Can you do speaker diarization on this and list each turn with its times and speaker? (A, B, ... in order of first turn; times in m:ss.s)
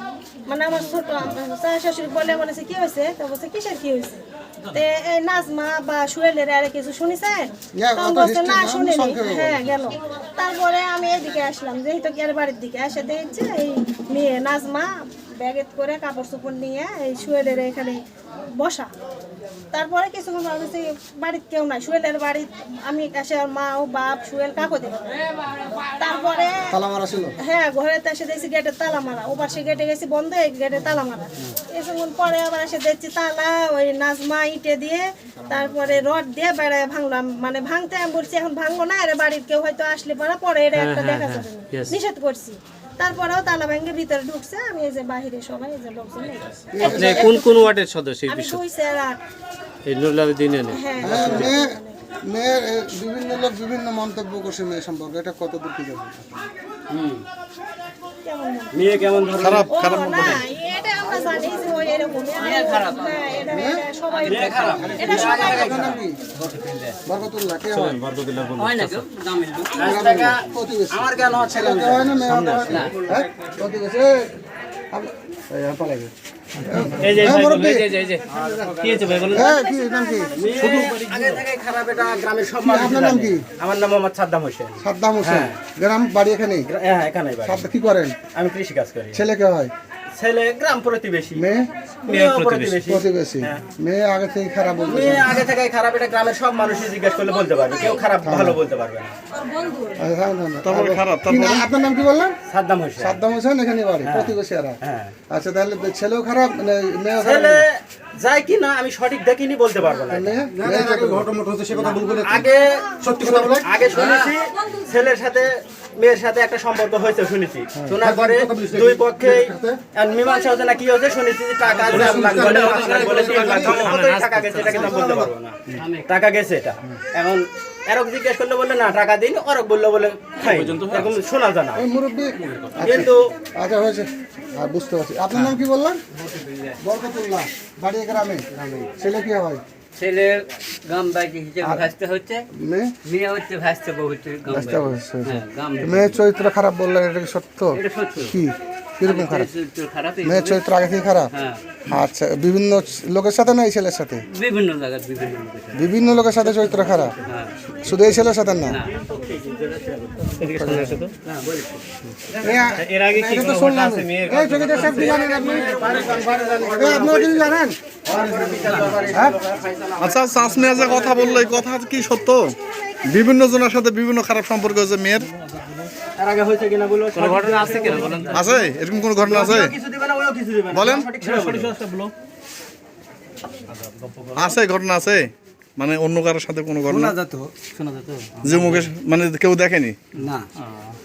0:00.5-0:04.2 A
0:04.7-0:18.0 A
0:07.8-0:09.8 B
0:18.6-0:18.9 A
0:19.7-0:25.2 A
0:25.8-0:26.7 A
0:26.7-0:27.4 B
0:27.4-0:49.2 A
0:46.7-0:47.4 B
0:50.0-0:50.8 C
0:50.7-0:52.0 A
0:51.0-0:51.5 D
0:51.0-0:51.7 B
0:52.3-0:56.5 B
0:56.9-0:57.2 D
0:58.2-0:58.7 A
0:58.7-0:59.8 D
0:59.4-1:00.4 E
0:59.7-1:05.9 A
1:02.4-1:03.5 F
1:03.5-1:03.8 B
1:04.1-1:05.6 F
1:04.3-1:07.0 D
1:04.9-1:06.2 B
1:07.1-1:08.0 B
1:07.7-1:09.0 E
1:08.6-1:10.0 F
1:09.7-1:12.9 D
1:09.8-1:14.4 B
1:12.3-1:12.6 E
1:12.6-1:13.0 F
1:14.9-1:16.1 B
1:16.6-1:17.9 B
1:17.0-1:17.9 D
1:17.1-1:17.7 F
1:18.4-1:19.4 D
1:18.8-1:19.2 E
1:19.2-1:20.8 B
1:19.2-1:21.0 A
1:20.4-1:25.6 D
1:20.6-1:21.2 E
1:22.6-1:23.4 B
1:24.8-1:26.7 B
1:26.7-1:27.7 D
1:27.4-1:28.2 B
1:28.3-1:29.2 D
1:29.1-1:29.7 B
1:30.2-1:31.4 D
1:31.4-1:31.7 B
1:32.0-1:33.6 D
1:32.2-1:32.6 E
1:32.8-1:35.5 B
1:34.9-1:39.2 D
1:38.2-1:38.6 B
1:40.0-1:42.4 B
1:40.6-1:41.7 E
1:42.5-1:43.2 D
1:43.0-1:44.8 B
1:44.0-1:45.2 D
1:45.3-1:47.7 B
1:47.2-2:11.8 D
1:50.1-1:52.5 B
1:50.6-1:51.0 C
1:51.6-1:52.4 C
1:53.0-1:53.7 B
1:53.9-1:54.3 F
1:57.8-1:59.8 B
1:58.1-1:58.8 C
2:01.7-2:03.8 C
2:02.0-2:03.9 B
2:02.7-2:03.6 F
2:03.5-2:04.9 E
2:04.6-2:05.2 C
2:04.7-2:05.0 B
2:05.8-2:06.1 F
2:10.4-2:11.1 E
2:11.8-2:16.0 B
2:12.8-2:13.3 D
2:16.2-2:16.8 F
2:16.8-2:19.6 B
2:18.6-2:18.9 F
2:20.0-2:22.4 F
2:21.6-2:21.9 B
2:22.5-2:22.9 B
2:23.0-2:26.2 F
2:24.5-2:29.5 B
2:27.7-2:28.4 F
2:29.0-2:30.6 F
2:30.2-2:31.3 B
2:31.3-2:31.6 F
2:31.9-2:34.2 B
2:34.3-2:35.9 F
2:35.7-2:37.2 B
2:36.5-2:37.6 F
2:37.8-2:38.8 B
2:38.6-2:38.9 F
2:38.8-2:41.8 D
2:40.4-2:40.9 F
2:40.5-2:41.1 E
2:40.6-2:41.0 B
2:42.4-2:45.9 B
2:42.8-2:45.1 E
2:44.7-2:47.5 D
2:46.6-2:47.8 B
2:48.1-2:51.6 D
2:48.1-2:49.1 F
2:49.1-2:49.4 B
2:50.0-2:55.7 E
2:56.2-2:58.6 D
2:57.6-2:58.0 C
2:58.0-2:58.3 F
2:58.2-2:59.7 E
2:59.2-3:01.8 D
3:00.7-3:02.1 E
3:04.4-3:07.2 E
3:06.9-3:07.5 D
3:07.6-3:08.8 F
3:08.4-3:10.0 E